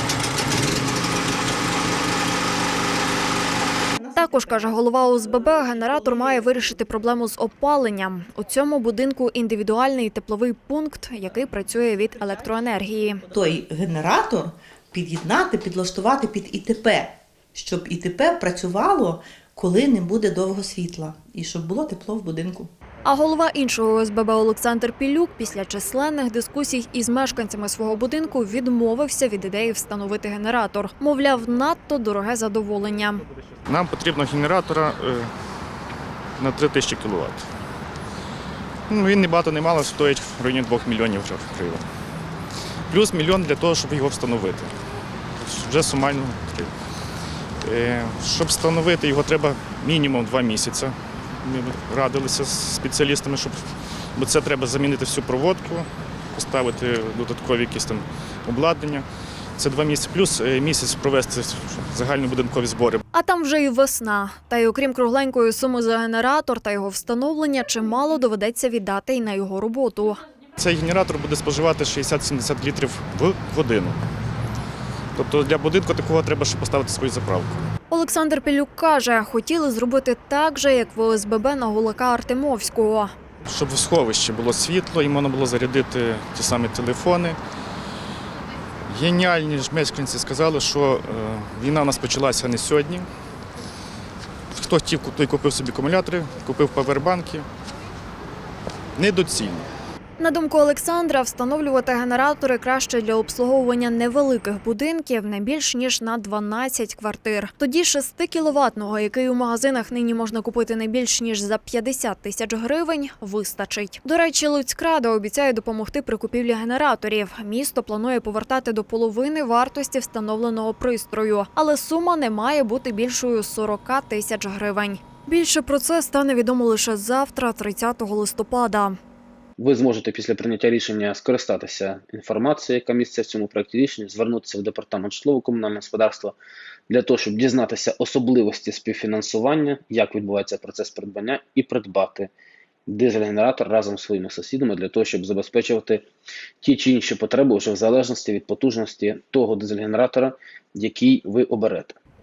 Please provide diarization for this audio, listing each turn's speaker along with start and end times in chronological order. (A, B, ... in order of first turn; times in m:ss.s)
0:04.0-0:04.3 A
0:04.2-0:13.2 B
0:13.3-0:22.7 A
0:23.0-0:33.2 B
0:33.7-0:35.3 C
0:36.4-0:37.4 C
0:38.9-0:41.8 C
0:42.9-0:44.7 C
0:45.4-0:46.7 C
0:47.6-0:50.9 C
0:51.4-0:53.6 C
0:54.2-0:59.0 C
0:59.6-1:03.0 C
1:03.1-1:10.2 B
1:10.6-1:14.0 C
1:15.2-1:17.6 C
1:17.9-1:23.1 B
1:23.5-1:27.4 C
1:28.9-1:33.1 C
1:34.6-1:37.4 C
1:39.0-1:39.6 C
1:40.2-2:09.0 B
2:09.6-2:16.4 D
2:16.9-2:22.3 D
2:22.9-2:26.1 D
2:26.6-2:32.0 D